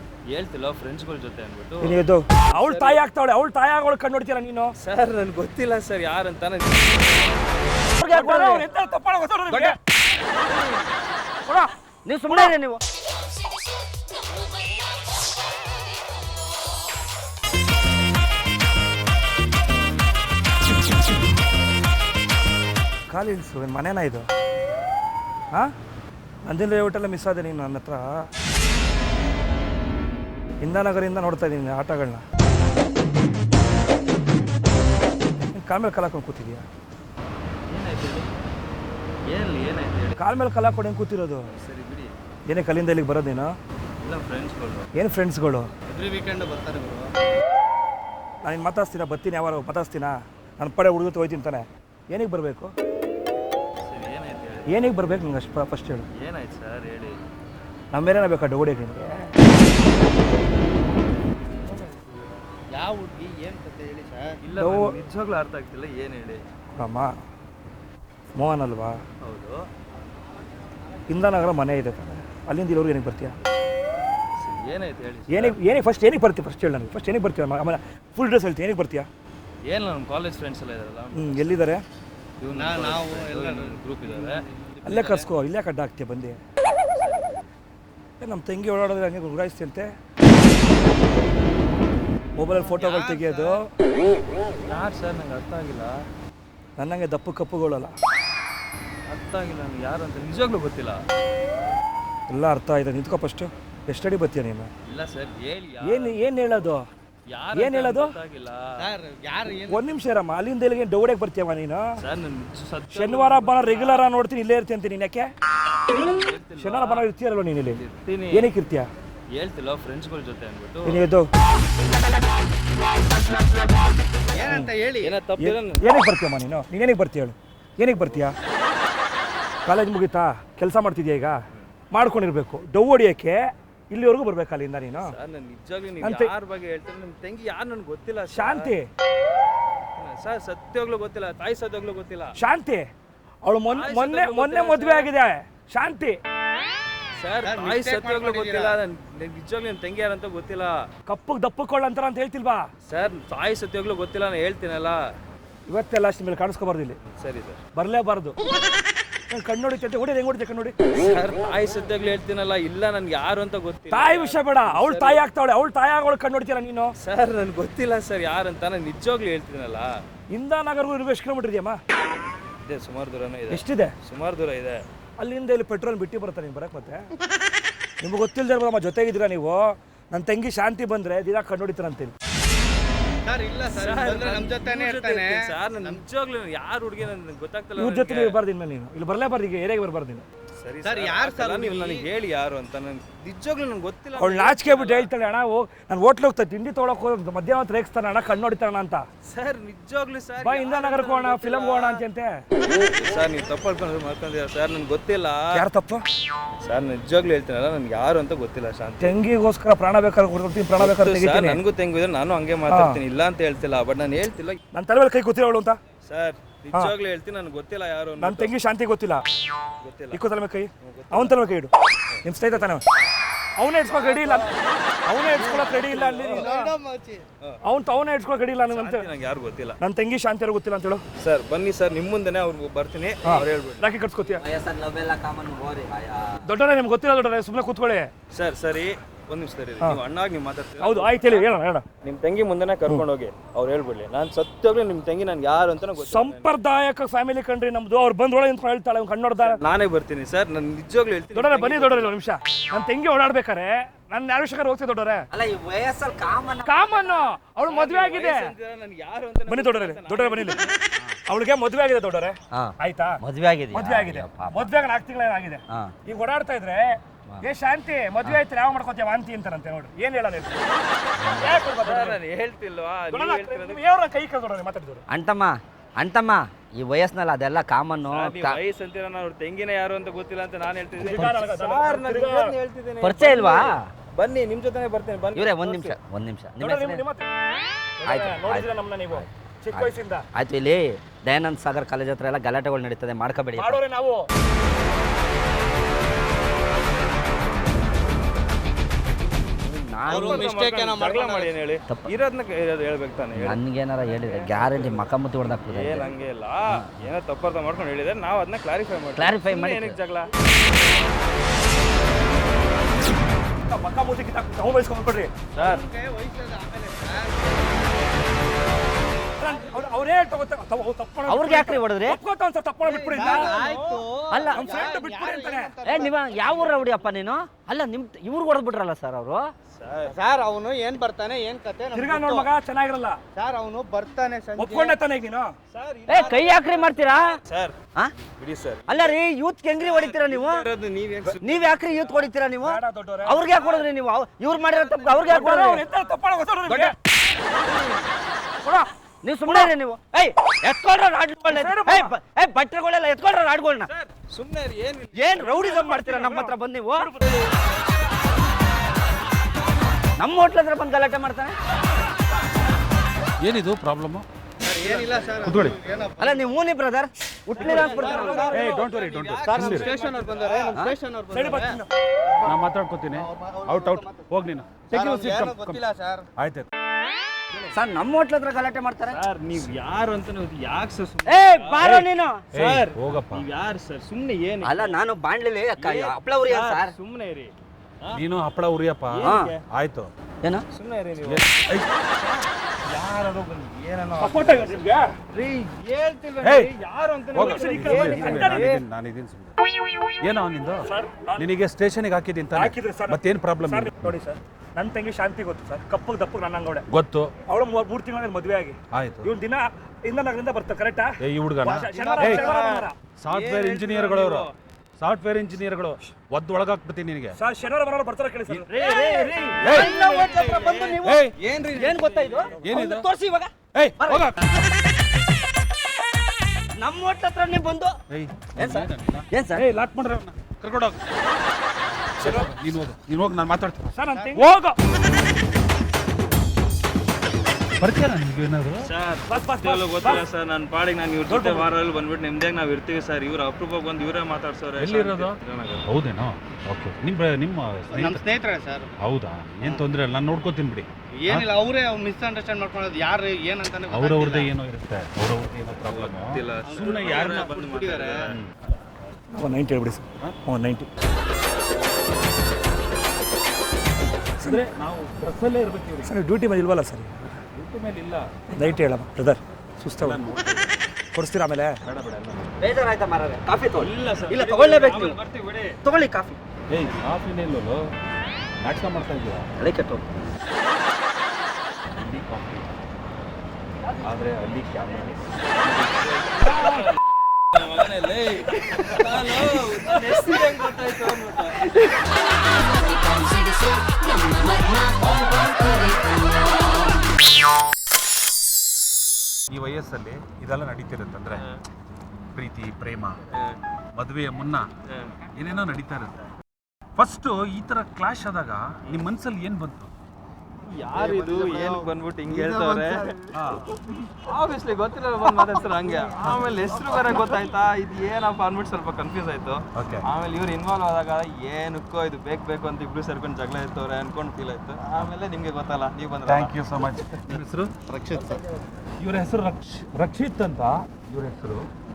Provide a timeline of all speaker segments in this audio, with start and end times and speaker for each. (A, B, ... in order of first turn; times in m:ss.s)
0:00.3-0:02.0 A
0:01.8-0:04.7 B
0:02.6-0:03.0 A
0:04.8-0:07.0 A
0:08.0-0:08.7 C
0:08.0-0:09.8 B
0:09.5-0:09.8 A
0:10.5-0:10.8 A
0:12.0-0:12.8 C
0:12.3-0:12.6 B
0:23.1-0:24.3 B
0:26.5-0:28.1 B
0:30.6-0:32.2 B
0:35.5-0:36.6 B
0:37.7-0:38.3 A
0:39.3-0:40.2 A
0:40.2-0:41.5 B
0:41.5-0:42.1 A
0:42.5-0:43.5 B
0:44.0-0:44.9 A
0:45.0-0:45.7 B
0:45.9-0:47.1 D
0:48.4-0:52.7 B
0:53.9-0:55.4 A
0:54.7-0:56.1 B
0:56.2-0:57.2 A
0:57.9-0:59.3 B
1:01.7-1:02.0 A
1:02.7-1:04.4 D
1:04.4-1:06.4 A
1:04.6-1:04.9 B
1:06.8-1:07.1 B
1:08.4-1:09.0 B
1:09.2-1:09.7 A
1:11.1-1:13.4 B
1:14.4-1:15.6 A
1:15.3-1:19.1 B
1:19.7-1:21.6 A
1:21.1-1:21.8 B
1:22.4-1:25.3 A
1:22.6-1:24.4 D
1:24.8-1:26.4 B
1:27.0-1:27.5 A
1:28.2-1:29.9 B
1:32.4-1:33.7 B
1:32.6-1:33.6 D
1:34.7-1:36.0 A
1:36.8-1:37.9 B
1:39.1-1:41.0 A
1:42.3-1:44.7 B
1:44.9-1:46.6 A
1:45.8-1:46.9 B
1:47.3-1:48.9 A
1:47.5-1:48.2 B
1:48.8-1:49.9 D
1:49.7-1:51.9 B
1:52.0-1:54.1 A
1:52.9-1:55.3 B
1:55.9-1:57.1 A
1:56.6-1:57.8 B
1:57.7-1:58.5 A
1:58.3-1:58.9 B
1:59.4-2:01.0 A
2:00.8-2:01.3 B
2:04.3-2:05.2 D
2:04.4-2:04.8 B
2:05.0-2:06.0 A
2:05.4-2:08.4 B
2:09.6-2:11.4 B
2:11.9-2:15.1 B
2:15.0-2:18.7 A
2:16.0-2:16.3 B
2:18.3-2:18.9 B
2:20.0-2:22.4 A
2:22.4-2:22.9 B
2:23.4-2:26.2 B
2:23.7-2:25.1 A
2:27.2-2:30.8 A
2:27.4-2:28.8 D
2:31.1-2:32.7 B
2:32.9-2:35.0 A
2:35.7-2:37.0 B
2:37.1-2:37.6 A
2:37.8-2:38.4 B
2:39.3-2:40.8 B
2:40.9-2:45.2 A
2:43.9-2:47.0 B
2:47.0-2:49.9 A
2:50.3-2:51.8 B
2:52.7-2:54.8 A
2:53.5-2:54.0 B
2:55.2-2:57.1 B
2:58.0-3:02.1 B
3:03.2-3:06.0 D
3:03.7-3:08.4 A
3:07.8-3:10.3 B
3:10.6-3:15.1 A
3:10.8-3:12.1 D
3:14.2-3:19.0 B
3:19.3-3:22.0 A
3:20.4-3:22.3 B
3:22.9-3:25.7 A
3:25.5-3:26.0 B
3:26.6-3:29.2 A
3:29.0-3:31.6 B
3:30.8-3:34.6 A
3:32.7-3:33.0 B
3:34.7-3:35.8 B
3:36.0-3:38.5 A
3:38.2-3:39.2 B
3:39.8-3:40.2 A
3:40.1-3:41.7 B
3:40.8-3:41.4 A
3:42.1-3:42.6 A
3:42.2-3:42.8 B
3:43.6-3:44.5 B
3:45.1-3:46.7 B
3:45.2-3:46.5 A
3:46.2-3:47.3 D
3:47.6-3:49.1 B
3:48.6-3:49.8 A
3:49.8-3:51.0 B
3:51.2-3:53.9 A
3:53.2-3:54.4 B
3:54.3-3:56.4 C
3:56.4-3:58.1 B
3:58.3-4:01.5 A
4:00.8-4:01.8 B
4:02.0-4:06.5 A
4:06.0-4:09.6 B
4:09.4-4:12.2 A
4:11.3-4:15.3 B
4:15.3-4:17.1 C
4:16.6-4:18.5 B
4:17.6-4:20.8 A
4:19.5-4:20.7 B
4:21.3-4:23.2 B
4:22.5-4:24.7 C
4:23.7-4:30.6 B
4:31.2-4:31.7 E
4:31.2-4:32.2 B
4:31.8-4:33.8 A
4:33.1-4:35.0 B
4:35.1-4:38.6 C
4:38.1-4:46.0 A
4:41.0-4:42.6 B
4:43.0-4:43.9 C
4:45.3-4:47.0 C
4:46.6-4:47.3 B
4:48.0-4:50.3 B
4:48.0-4:53.8 C
4:53.6-4:54.3 B
4:59.6-5:00.5 C
5:00.1-5:10.3 A
5:00.1-5:01.5 D
5:03.3-5:07.0 C
5:09.2-5:10.0 C
5:13.7-5:15.3 B
5:15.5-5:15.9 A
5:15.6-5:17.6 D
5:19.4-5:23.6 B
5:21.3-5:22.2 C
5:22.8-5:26.9 D
5:23.2-5:24.1 A
5:24.3-5:24.8 C
5:24.5-5:25.9 B
5:25.8-5:29.5 C
5:29.8-5:30.2 A
5:30.0-5:32.5 D
5:31.9-5:33.2 B
5:33.4-5:35.0 D
5:34.6-5:35.5 B
5:35.7-5:39.2 A
5:36.1-5:37.4 C
5:38.9-5:40.7 C
5:39.8-5:42.3 A
5:41.4-5:45.9 C
5:42.6-5:43.5 B
5:43.6-5:43.8 A
5:44.6-5:45.5 A
5:45.3-5:46.9 B
5:46.7-5:46.9 C
5:47.6-5:48.0 A
5:48.6-5:53.9 C
5:49.5-5:49.7 B
5:51.5-5:52.1 B
5:53.9-5:55.5 A
5:55.2-5:57.1 C
5:55.3-5:57.3 B
6:00.2-6:01.6 C
6:03.4-6:04.3 E
6:04.6-6:05.7 A
6:04.7-6:06.5 D
6:05.4-6:05.8 E
6:06.2-6:08.5 C
6:07.6-6:10.8 A
6:07.6-6:08.7 D
6:07.6-6:08.9 B
6:08.5-6:09.9 E
6:09.4-6:11.8 D
6:10.7-6:11.0 C
6:11.3-6:11.9 B
6:12.4-6:15.8 E
6:13.2-6:14.1 D
6:14.9-6:16.3 D
6:16.4-6:16.7 E
6:17.7-6:19.2 C
6:19.1-6:21.9 A
6:21.3-6:22.4 C
6:21.8-6:23.5 E
6:22.5-6:25.0 A
6:24.6-6:27.0 C
6:25.8-6:28.2 A
6:28.1-6:30.1 E
6:29.1-6:29.6 A
6:29.2-6:29.5 C
6:30.7-6:31.5 A
6:31.2-6:31.9 E
6:32.2-6:38.8 A
6:34.2-6:35.2 B
6:36.4-6:36.7 E
6:37.3-6:39.6 E
6:37.4-6:38.8 B
6:40.2-6:44.2 E
6:40.9-6:41.5 B
6:42.5-6:46.9 B
6:46.9-6:47.3 E
6:47.5-6:53.0 B
6:48.9-6:49.3 E
6:51.2-6:52.5 E
6:51.7-6:54.5 A
6:53.2-6:57.4 E
6:57.4-6:58.8 B
6:58.7-7:02.8 A
6:58.9-7:04.3 C
6:59.6-6:59.9 E
7:01.0-7:01.4 E
7:02.6-7:03.1 E
7:03.8-7:04.6 E
7:06.8-7:08.0 C
7:08.1-7:11.0 E
7:08.6-7:09.6 C
7:12.2-7:14.4 E
7:12.2-7:12.5 B
7:13.9-7:14.8 B
7:14.1-7:14.5 D
7:17.8-7:18.9 E
7:18.8-7:25.9 A
7:19.3-7:20.2 B
7:21.3-7:21.7 B
7:24.8-7:28.3 E
7:27.9-7:29.0 D
7:29.0-7:31.5 E
7:31.1-7:34.5 D
7:33.9-7:37.6 E
7:35.9-7:38.4 A
7:36.7-7:38.3 D
7:39.3-7:40.9 B
7:44.4-7:46.1 E
7:46.0-7:47.4 B
7:47.5-7:48.3 E
7:48.5-7:50.2 B
7:50.0-7:50.9 E
7:51.1-7:51.8 B
7:51.8-7:52.6 E
7:52.6-7:55.2 C
7:53.8-7:55.8 A
7:55.8-7:56.4 C
7:56.7-7:57.8 E
7:58.6-7:59.5 E
7:59.6-8:00.1 C
8:01.9-8:02.8 E
8:03.9-8:06.2 E
8:06.1-8:07.0 A
8:07.5-8:11.9 A
8:19.5-8:21.5 E
8:22.3-8:23.2 E
8:24.0-8:24.7 E
8:24.9-8:25.2 A
8:25.3-8:26.2 E
8:27.0-8:29.9 E
8:30.7-8:46.6 A
8:31.0-8:33.2 D
8:33.3-8:33.7 E
8:39.8-8:40.1 E
8:46.3-8:47.8 E
8:47.9-8:48.4 D
8:49.0-8:51.7 E